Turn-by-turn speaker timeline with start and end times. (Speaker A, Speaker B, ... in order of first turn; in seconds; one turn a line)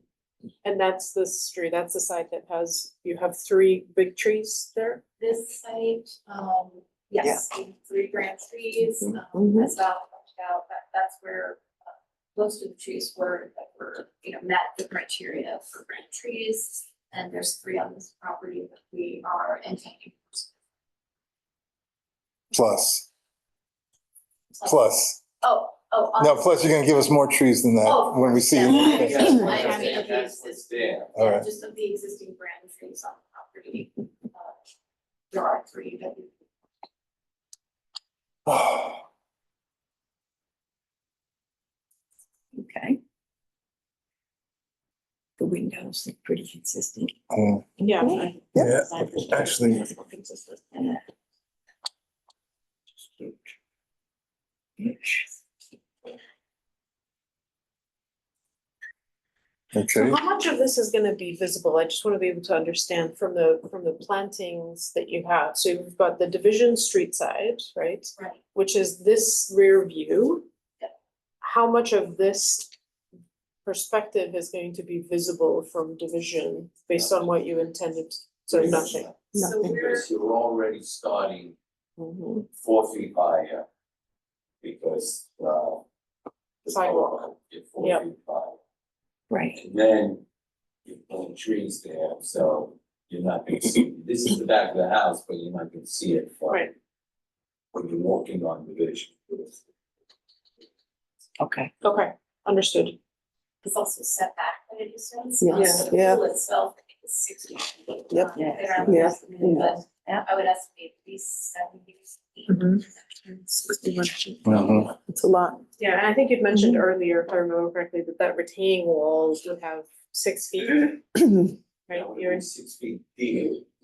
Speaker A: 0.6-5.0
Speaker B: 5.2-20.5
Speaker C: 9.1-9.7
Speaker D: 22.5-23.1
Speaker D: 24.6-25.2
Speaker B: 25.4-26.6
Speaker D: 26.2-29.5
Speaker B: 27.8-34.5
Speaker E: 28.9-31.2
Speaker A: 29.5-30.0
Speaker D: 31.1-31.5
Speaker B: 35.3-36.3
Speaker D: 38.5-39.0
Speaker F: 42.5-43.0
Speaker F: 45.4-47.1
Speaker D: 47.3-47.7
Speaker A: 47.8-48.2
Speaker F: 48.0-48.3
Speaker C: 48.0-48.8
Speaker D: 48.5-49.9
Speaker F: 49.0-51.0
Speaker F: 54.8-55.3
Speaker D: 59.7-60.2
Speaker A: 59.9-70.5
Speaker A: 71.4-72.7
Speaker A: 73.7-79.3
Speaker E: 76.9-77.4
Speaker E: 78.5-81.5
Speaker C: 79.3-79.6
Speaker B: 79.3-80.1
Speaker C: 82.0-82.4
Speaker E: 82.5-83.7
Speaker E: 84.6-85.8
Speaker A: 86.7-88.0
Speaker E: 86.7-88.6
Speaker F: 89.3-89.6
Speaker E: 89.5-90.2
Speaker E: 90.8-96.7
Speaker E: 97.7-99.6
Speaker F: 101.4-101.7
Speaker A: 101.8-103.0
Speaker B: 103.6-113.3
Speaker C: 105.4-106.2
Speaker A: 105.5-105.8
Speaker C: 108.1-109.8
Speaker F: 108.3-110.3
Speaker C: 112.5-112.8
Speaker C: 113.3-114.4
Speaker D: 114.4-114.9
Speaker E: 114.5-114.9
Speaker C: 115.1-115.6
Speaker A: 115.8-121.2
Speaker C: 116.5-116.8
Speaker A: 121.9-122.5
Speaker E: 121.9-123.6